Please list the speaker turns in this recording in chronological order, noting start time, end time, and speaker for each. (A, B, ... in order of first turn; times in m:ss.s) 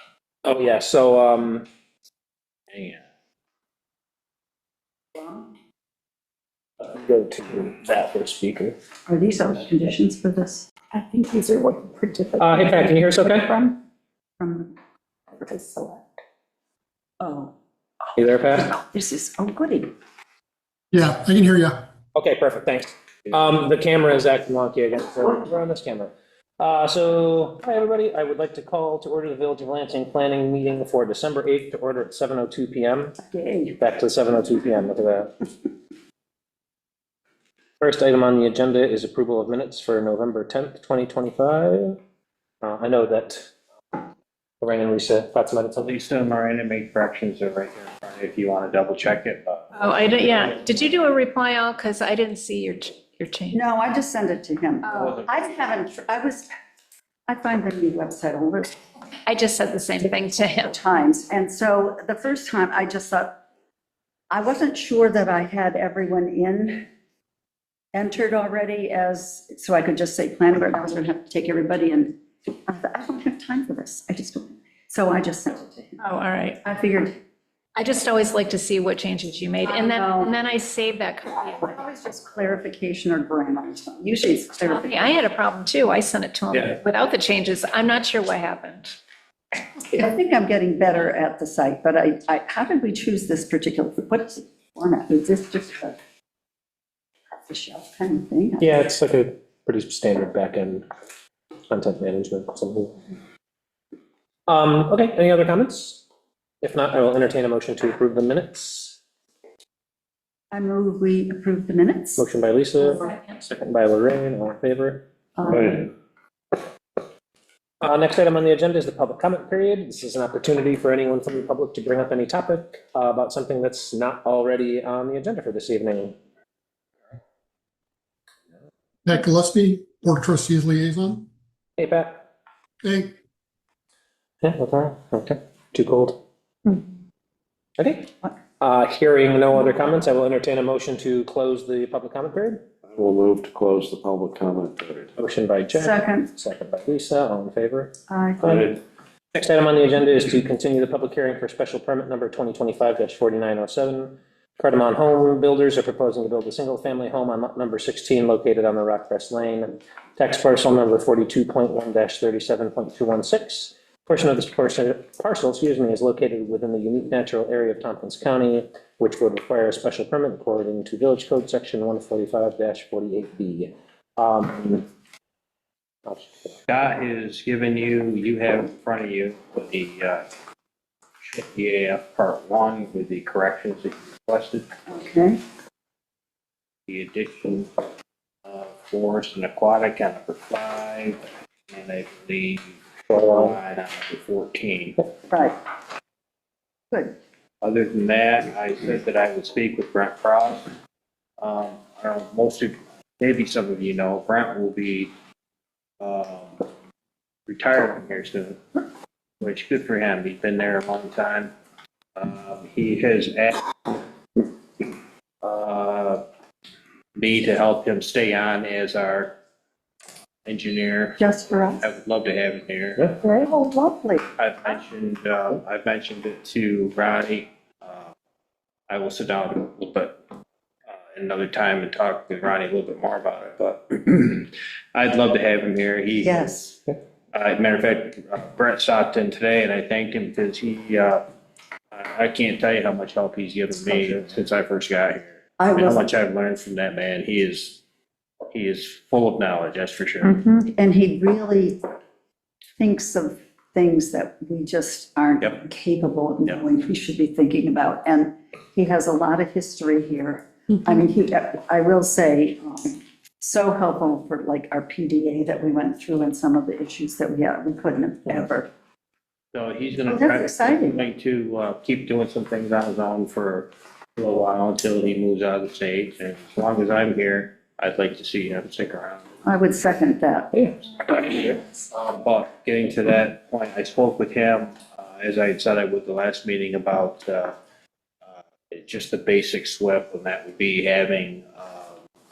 0:00.4-0:01.6 A
0:02.7-0:03.0 B
0:05.2-0:05.5 C
0:06.9-0:08.8 A
0:09.1-0:13.8 C
0:12.4-0:13.5 A
0:14.4-0:14.7 C
0:15.4-0:16.0 C
0:17.2-0:17.6 C
0:18.2-0:18.8 A
0:18.6-0:19.9 C
0:20.9-0:21.8 D
0:22.2-0:33.2 A
0:33.2-0:33.8 C
0:33.8-0:35.3 A
0:37.8-0:42.0 A
0:42.6-0:43.5 A
0:44.6-0:45.9 A
0:45.8-0:50.6 B
0:49.7-0:53.6 E
0:53.5-0:56.5 C
0:55.0-0:55.3 B
0:57.3-0:58.7 C
0:59.3-1:00.8 E
1:00.5-1:03.4 C
1:04.3-1:06.9 C
1:07.9-1:16.0 C
1:16.0-1:16.6 E
1:16.6-1:17.2 C
1:17.7-1:21.8 E
1:19.7-1:20.4 C
1:21.6-1:25.2 C
1:24.6-1:29.0 E
1:29.9-1:36.0 C
1:37.5-1:38.8 C
1:38.6-1:40.8 A
1:41.7-1:43.0 A
1:44.5-1:46.0 A
1:46.6-1:49.0 A
1:50.5-1:52.2 C
1:52.2-1:55.8 A
1:55.4-1:55.8 C
1:57.8-2:06.2 A
2:09.1-2:11.2 D
2:11.8-2:12.2 A
2:14.4-2:16.2 A
2:17.8-2:22.6 A
2:22.9-2:25.1 F
2:25.2-2:28.8 A
2:25.7-2:26.3 C
2:28.1-2:28.7 C
2:29.3-2:54.9 A
2:56.1-2:56.5 A
2:56.7-3:00.3 B
3:01.2-3:04.7 B
3:04.9-3:05.4 C
3:06.9-3:07.7 B
3:08.4-3:15.0 B
3:15.3-3:15.6 C
3:16.9-3:17.2 C
3:17.6-3:20.7 B
3:21.4-3:25.1 B
3:26.0-3:26.6 B
3:27.5-3:28.8 B
3:29.4-3:31.5 B
3:32.2-3:34.9 B
3:35.4-3:36.2 B
3:37.2-3:39.4 B
3:40.4-3:41.2 B
3:41.2-3:41.9 C
3:41.8-3:43.2 B
3:43.2-3:44.2 C
3:44.4-3:48.1 B
3:48.9-3:50.2 B
3:50.9-3:56.5 B
3:56.2-3:56.8 C
3:57.3-4:01.2 B
4:01.9-4:07.8 B
4:05.6-4:06.0 C
4:08.5-4:10.4 B
4:10.6-4:11.8 C
4:12.8-4:28.7 C
4:29.5-4:39.2 B
4:30.0-4:31.0 C
4:39.4-4:40.5 C
4:42.0-4:47.6 B
4:48.2-4:52.0 B